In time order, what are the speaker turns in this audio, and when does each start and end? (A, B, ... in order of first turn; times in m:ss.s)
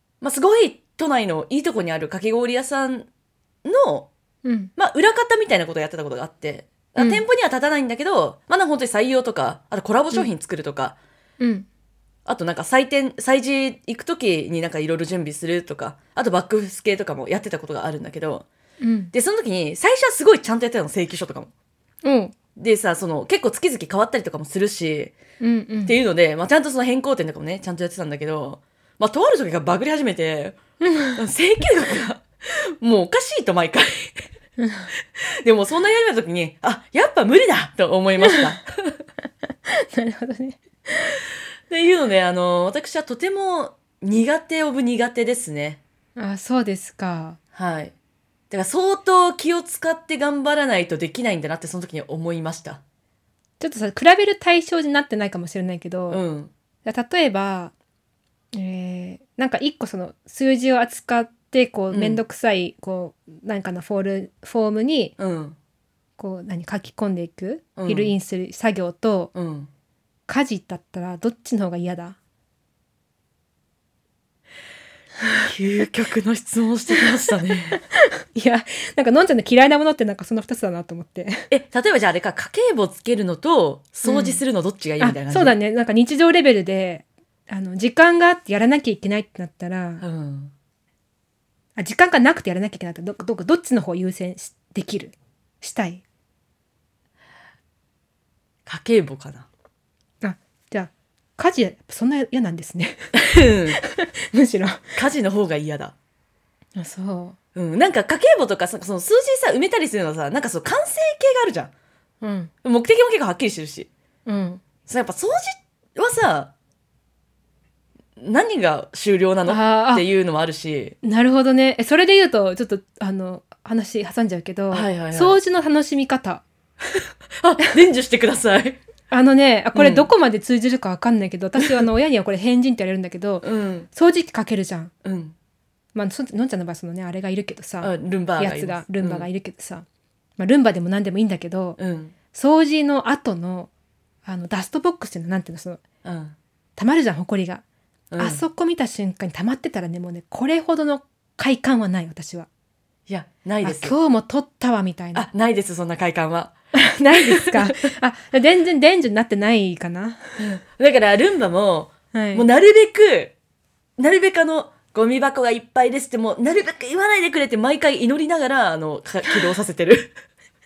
0:00.2-0:03.1 A
0:03.6-0:04.1 A
0:04.4-0:04.7 B
0:04.8-0:11.0 A
0:07.0-0:07.2 B
0:11.4-0:11.7 B
0:12.3-0:18.5 A
0:18.8-0:19.1 B
0:19.1-0:21.5 A
0:22.0-0:22.4 B
0:22.6-0:25.2 A
0:25.4-0:26.0 B
0:25.9-0:30.6 A
0:30.8-0:31.2 B
0:31.2-0:34.2 A
0:34.6-0:34.9 B
0:35.4-0:39.0 A
0:39.7-0:41.2 B
0:41.7-0:45.8 A
0:46.2-0:47.4 B
0:47.5-0:47.9 A
0:48.5-0:52.8 A
0:53.6-0:56.2 B
0:56.1-0:56.5 A
0:56.8-0:57.7 B
0:58.5-1:05.1 B
1:01.9-1:02.2 A
1:05.2-1:05.6 A
1:06.2-1:09.3 B
1:07.8-1:08.1 A
1:09.4-1:09.7 A
1:10.3-1:12.2 B
1:15.4-1:17.8 A
1:17.8-1:21.5 B
1:21.5-1:25.6 A
1:24.0-1:24.4 B
1:25.0-1:30.0 B
1:30.0-1:30.5 A
1:31.8-1:36.0 B
1:38.7-1:39.5 A
1:40.2-1:45.0 B
1:43.2-1:43.8 A
1:45.0-1:45.9 A
1:46.8-1:47.4 B
1:47.6-1:51.7 A
1:52.2-1:52.5 B
1:52.6-1:53.9 A
1:54.3-1:54.6 B
1:54.9-1:56.5 A
1:58.2-2:01.0 A
1:59.5-2:00.0 B
2:01.0-2:06.4 B
2:04.7-2:05.4 A
2:06.9-2:08.8 A
2:09.1-2:14.9 B
2:09.8-2:10.1 A
2:13.4-2:13.9 A
2:15.0-2:15.4 A
2:16.0-2:19.8 B
2:17.8-2:19.3 A
2:20.4-2:21.8 B
2:21.8-2:22.1 A
2:22.3-2:23.7 B
2:24.2-2:25.8 B
2:26.0-2:26.4 A
2:26.8-2:27.6 B
2:28.1-2:28.4 A
2:28.2-2:32.5 B
2:33.1-2:34.0 A
2:33.6-2:35.3 B
2:35.1-2:36.6 A
2:36.8-2:40.3 B
2:37.2-2:37.9 A
2:40.4-2:43.3 A
2:42.1-2:42.4 B
2:44.0-2:50.1 A